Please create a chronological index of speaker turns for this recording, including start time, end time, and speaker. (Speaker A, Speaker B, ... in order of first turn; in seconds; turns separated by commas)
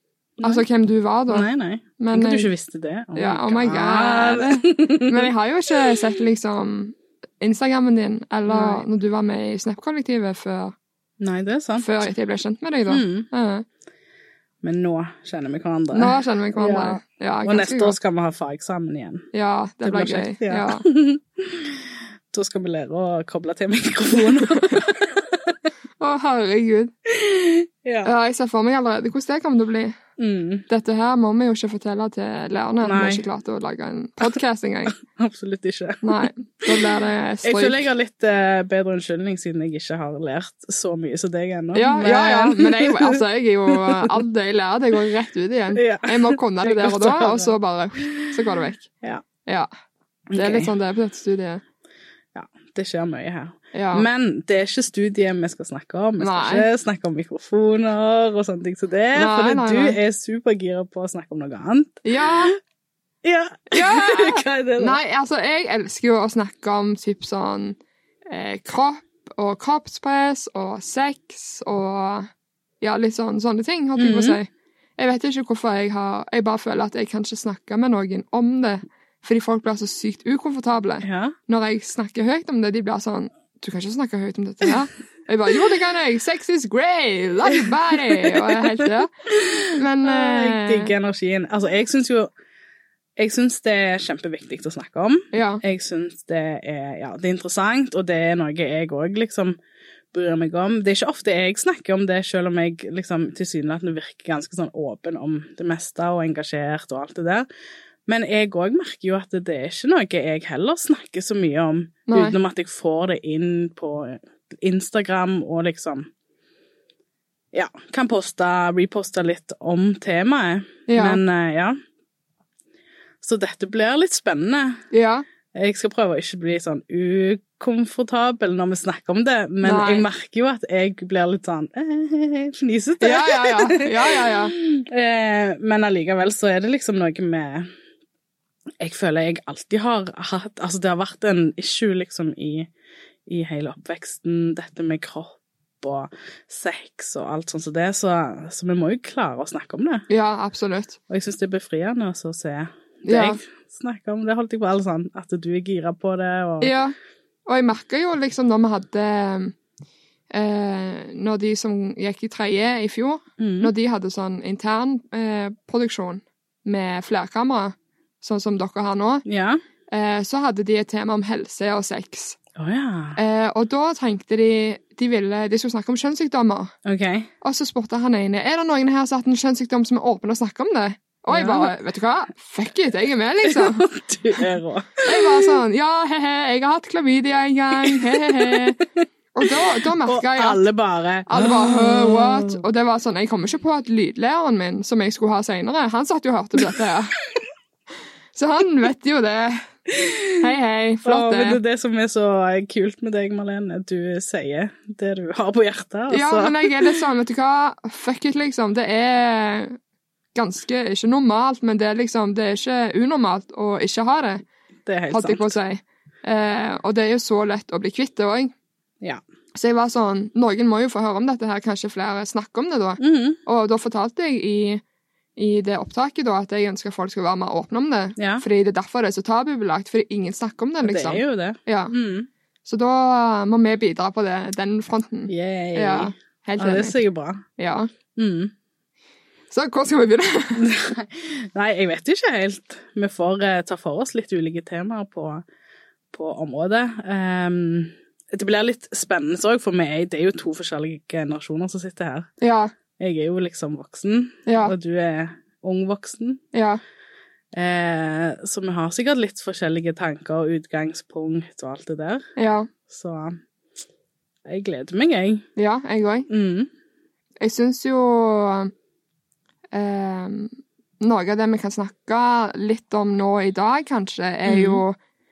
Speaker A: 0.4-1.5, Speaker B: 1.3-5.3, Speaker A: 2.0-2.5, Speaker A: 3.1-10.7, Speaker B: 8.5-8.8, Speaker B: 11.2-12.0, Speaker A: 11.8-13.6, Speaker B: 12.9-13.3, Speaker B: 14.6-19.2, Speaker A: 15.9-17.9, Speaker A: 19.3-20.8, Speaker B: 19.8-25.5, Speaker A: 24.1-24.9, Speaker A: 26.0-26.9, Speaker B: 27.1-28.1, Speaker A: 28.0-29.9, Speaker B: 30.2-30.6, Speaker A: 30.7-34.9, Speaker B: 32.8-33.2, Speaker B: 35.0-36.9, Speaker A: 36.0-37.9, Speaker B: 37.4-43.2, Speaker A: 41.7-48.9, Speaker B: 43.7-44.1, Speaker B: 45.7-49.2, Speaker B: 50.3-50.7, Speaker A: 50.4-51.6, Speaker B: 52.3-62.5, Speaker A: 53.7-54.1, Speaker A: 56.2-56.6, Speaker A: 59.1-60.0, Speaker A: 62.0-62.5, Speaker B: 63.2-65.0, Speaker A: 63.7-67.8, Speaker A: 68.3-72.3, Speaker A: 72.8-89.1, Speaker B: 74.0-74.4, Speaker B: 81.0-81.3, Speaker B: 88.0-88.6, Speaker B: 89.3-92.3, Speaker A: 89.8-90.9, Speaker B: 93.2-99.6, Speaker A: 95.3-95.6, Speaker B: 100.1-107.5, Speaker B: 108.1-116.1, Speaker A: 112.1-112.3, Speaker B: 117.5-121.8, Speaker A: 120.9-121.2, Speaker B: 123.2-124.8, Speaker A: 124.9-125.2, Speaker B: 125.5-137.7, Speaker A: 129.6-130.0, Speaker A: 133.0-134.5, Speaker B: 138.8-142.7, Speaker B: 143.3-150.0, Speaker A: 150.1-151.0, Speaker B: 151.1-156.8, Speaker A: 153.0-153.4, Speaker A: 156.6-156.9, Speaker A: 157.4-159.5, Speaker A: 160.3-169.2, Speaker B: 163.4-163.7, Speaker B: 169.2-169.6, Speaker A: 169.9-172.4, Speaker B: 172.6-173.2, Speaker A: 173.2-176.7, Speaker B: 176.8-177.3, Speaker A: 177.4-183.8, Speaker B: 181.3-181.7, Speaker B: 183.4-185.6, Speaker A: 185.0-188.8, Speaker B: 187.8-188.7, Speaker A: 189.3-190.6, Speaker B: 189.4-192.6, Speaker A: 191.3-197.1, Speaker A: 198.3-199.6, Speaker B: 199.9-200.4, Speaker A: 200.4-201.6, Speaker B: 201.0-207.0, Speaker A: 206.1-209.8, Speaker A: 210.3-214.4, Speaker B: 214.8-215.5, Speaker A: 215.1-218.5, Speaker A: 219.5-224.8, Speaker B: 223.0-223.4, Speaker A: 225.4-231.9, Speaker B: 228.2-228.4, Speaker B: 230.8-232.3, Speaker A: 232.7-237.0, Speaker B: 235.3-237.4, Speaker A: 237.6-237.9, Speaker B: 238.1-238.5, Speaker A: 239.5-240.6, Speaker B: 240.6-245.4, Speaker B: 246.1-252.3, Speaker A: 252.4-252.7, Speaker B: 253.0-256.4, Speaker A: 254.4-254.7, Speaker A: 256.5-256.8, Speaker B: 257.5-262.3, Speaker A: 262.4-262.7, Speaker B: 262.9-263.4, Speaker B: 264.5-265.4, Speaker A: 265.6-266.3, Speaker B: 266.3-266.7, Speaker A: 267.4-268.7, Speaker A: 269.7-275.0, Speaker B: 274.4-274.8